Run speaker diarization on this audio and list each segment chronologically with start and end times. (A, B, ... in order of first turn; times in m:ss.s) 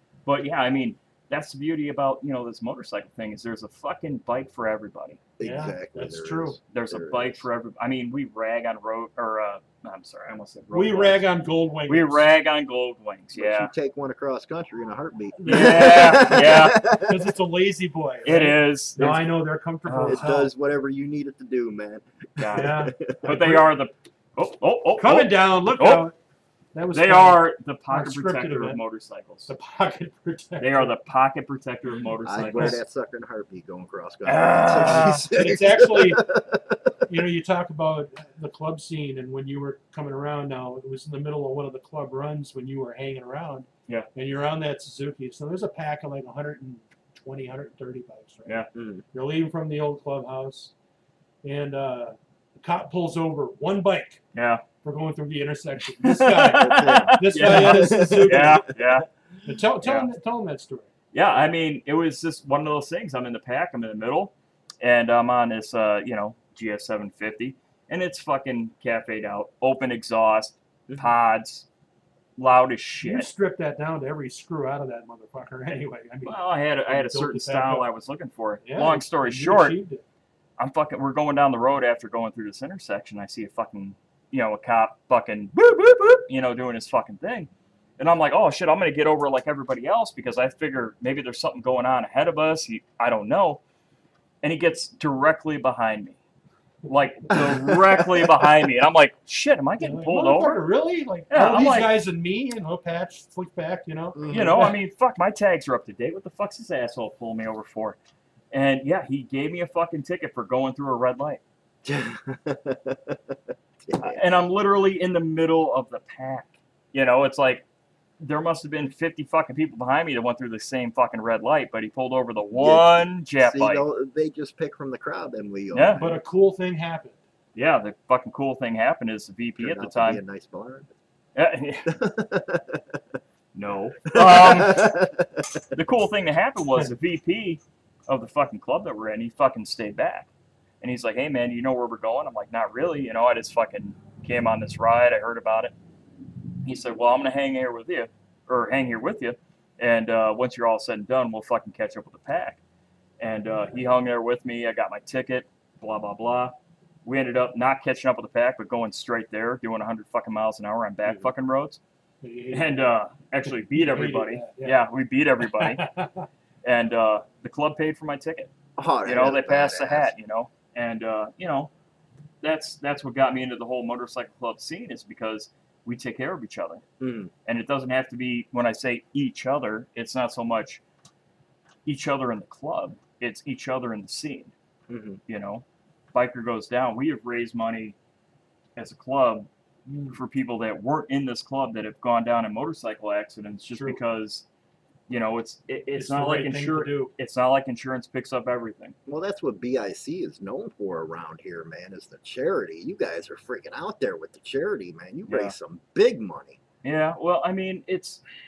0:00.3-0:05.2 A
0:05.4-0:07.5 B
0:05.4-0:06.6 C
0:06.7-0:11.2 A
0:10.7-0:12.3 C
0:11.9-0:13.7 A
0:13.4-0:17.3 B
0:15.4-0:20.5 C
0:15.5-0:16.8 A
0:18.2-0:20.3 A
0:20.0-0:23.5 B
0:22.4-0:26.1 A
0:22.5-0:23.7 C
0:25.0-0:26.2 C
0:26.7-0:28.8 C
0:26.9-0:29.5 A
0:29.5-0:30.9 C
0:30.6-0:32.8 A
0:32.2-0:36.9 B
0:32.5-0:32.8 C
0:34.2-0:35.3 A
0:34.9-0:36.3 C
0:37.1-0:48.6 C
0:48.8-0:49.0 B
0:49.1-0:50.7 C
0:51.4-0:54.2 C
0:54.3-0:54.6 A
0:54.8-0:58.7 C
0:56.0-0:59.1 A
0:56.6-0:59.0 B
0:59.4-1:00.9 C
0:59.8-1:00.1 A
1:01.1-1:11.7 A
1:12.4-1:13.3 A
1:13.0-1:16.4 C
1:16.2-1:19.8 A
1:16.9-1:17.9 C
1:18.6-1:20.0 C
1:20.6-1:33.6 A
1:34.4-1:36.2 A
1:36.9-1:40.6 A
1:37.4-1:37.7 B
1:38.2-1:38.4 B
1:39.8-1:44.8 C
1:41.3-1:42.0 A
1:44.2-1:44.7 B
1:44.3-1:48.0 A
1:48.5-1:51.4 A
1:51.8-1:54.2 B
1:54.0-1:57.6 A
1:58.2-2:03.8 A
2:02.6-2:06.2 B
2:05.7-2:06.0 A
2:06.0-2:07.2 C
2:07.6-2:10.2 A
2:09.6-2:10.9 B
2:11.4-2:12.0 A
2:11.9-2:13.0 B
2:13.6-2:14.9 A
2:14.1-2:15.7 B
2:15.7-2:20.3 A
2:20.8-2:25.7 A
2:26.6-2:32.6 A
2:33.2-2:41.8 A
2:42.2-2:42.8 C
2:42.5-2:45.9 A
2:43.4-2:44.8 C
2:45.6-2:46.3 C
2:46.6-2:48.5 A
2:48.8-2:50.1 B
2:49.0-2:51.7 A
2:52.4-2:56.8 A
2:57.0-2:57.3 B
2:57.5-3:00.8 A
3:01.8-3:04.5 A
3:04.9-3:05.2 B
3:05.3-3:08.0 A
3:08.8-3:09.5 A
3:09.9-3:10.2 C
3:10.1-3:14.4 A
3:13.7-3:14.0 C
3:15.1-3:19.0 A
3:16.0-3:17.1 C
3:19.1-3:26.6 B
3:25.3-3:25.6 A
3:26.8-3:28.2 A